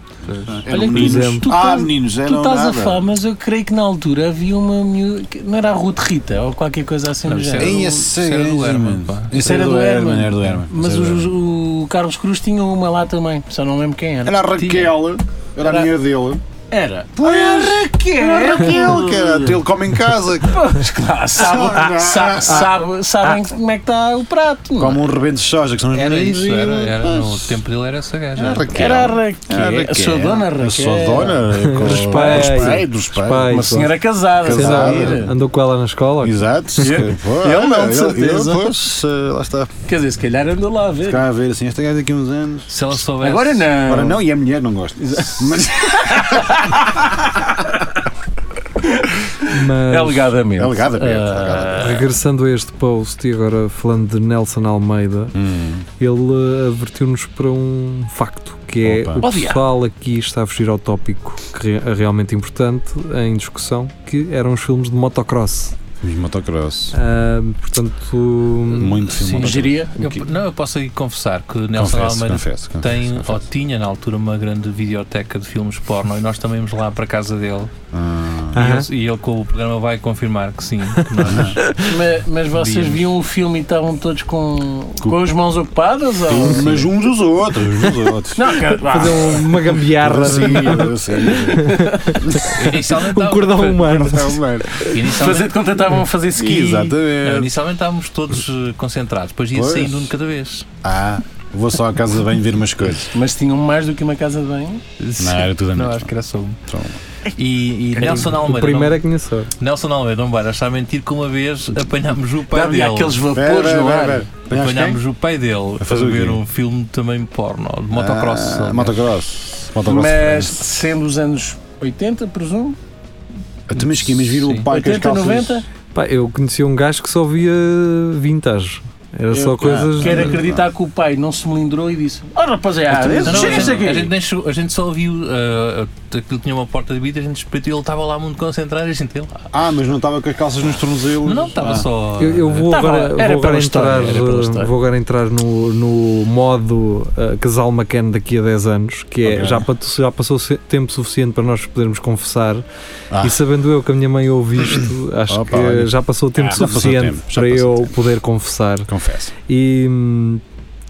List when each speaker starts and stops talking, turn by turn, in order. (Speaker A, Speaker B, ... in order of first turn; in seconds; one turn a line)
Speaker A: 0.2-0.7
Speaker B: 0.4-3.1
Speaker C: 0.7-7.9
Speaker D: 0.9-1.5
Speaker A: 7.2-9.4
Speaker B: 7.6-11.3
Speaker C: 9.3-14.4
Speaker B: 14.2-16.4
Speaker A: 14.6-14.9
Speaker C: 15.6-15.9
Speaker C: 16.7-19.6
Speaker B: 17.2-22.8
Speaker C: 20.5-25.1
Speaker B: 24.8-27.6
Speaker A: 25.9-28.7
Speaker B: 28.4-33.8
Speaker C: 28.7-32.8
Speaker D: 31.6-36.4
Speaker C: 33.5-35.3
Speaker B: 34.4-35.3
Speaker B: 36.2-39.7
Speaker C: 36.8-38.8
Speaker C: 39.9-41.2
Speaker B: 41.0-42.8
Speaker A: 42.7-43.9
Speaker C: 43.2-44.2
Speaker B: 43.8-46.6
Speaker C: 45.1-46.9
Speaker C: 49.0-52.1
Speaker D: 49.5-50.4
Speaker B: 50.6-52.0
Speaker D: 51.8-55.4
Speaker B: 55.4-55.9
Speaker D: 56.0-65.8
Speaker B: 58.8-59.2
Speaker C: 59.2-59.6
Speaker B: 66.0-67.0
Speaker D: 66.9-69.0
Speaker B: 68.7-70.2
Speaker A: 68.8-77.7
Speaker C: 69.3-69.9
Speaker B: 71.7-73.4
Speaker B: 77.9-78.6
Speaker D: 78.5-78.9
Speaker A: 78.5-81.8
Speaker D: 81.0-81.8
Speaker B: 81.2-81.6
Speaker C: 81.8-86.9
Speaker A: 82.5-83.1
Speaker B: 85.0-85.4
Speaker B: 86.2-88.6
Speaker C: 88.3-89.8
Speaker D: 88.9-94.9
Speaker B: 90.0-92.6
Speaker C: 90.4-90.8
Speaker A: 92.4-94.1
Speaker B: 93.8-94.9
Speaker A: 94.8-95.7
Speaker C: 95.0-97.0
Speaker B: 96.3-97.5
Speaker A: 97.2-100.7
Speaker B: 99.5-100.1
Speaker B: 100.8-103.1
Speaker C: 103.1-104.8
Speaker A: 105.0-106.6
Speaker B: 105.2-106.1
Speaker B: 106.7-107.0
Speaker A: 107.4-109.0
Speaker C: 108.0-108.2
Speaker D: 108.0-109.5
Speaker A: 109.6-113.2
Speaker C: 112.5-114.3
Speaker B: 113.3-115.0
Speaker A: 114.5-119.0
Speaker B: 115.8-116.4
Speaker B: 117.9-120.6
Speaker C: 119.8-122.8
Speaker B: 123.7-125.6
Speaker A: 124.2-124.7
Speaker C: 124.7-125.7
Speaker D: 125.9-130.4
Speaker C: 129.3-134.1
Speaker B: 129.6-130.7
Speaker B: 132.9-133.9
Speaker A: 133.2-139.4
Speaker B: 139.5-141.9
Speaker A: 141.2-142.7
Speaker D: 142.2-152.6
Speaker C: 142.7-144.7
Speaker B: 149.2-149.7
Speaker B: 153.1-153.4
Speaker D: 153.2-158.9
Speaker B: 154.7-158.0
Speaker B: 158.9-159.3
Speaker D: 159.5-160.4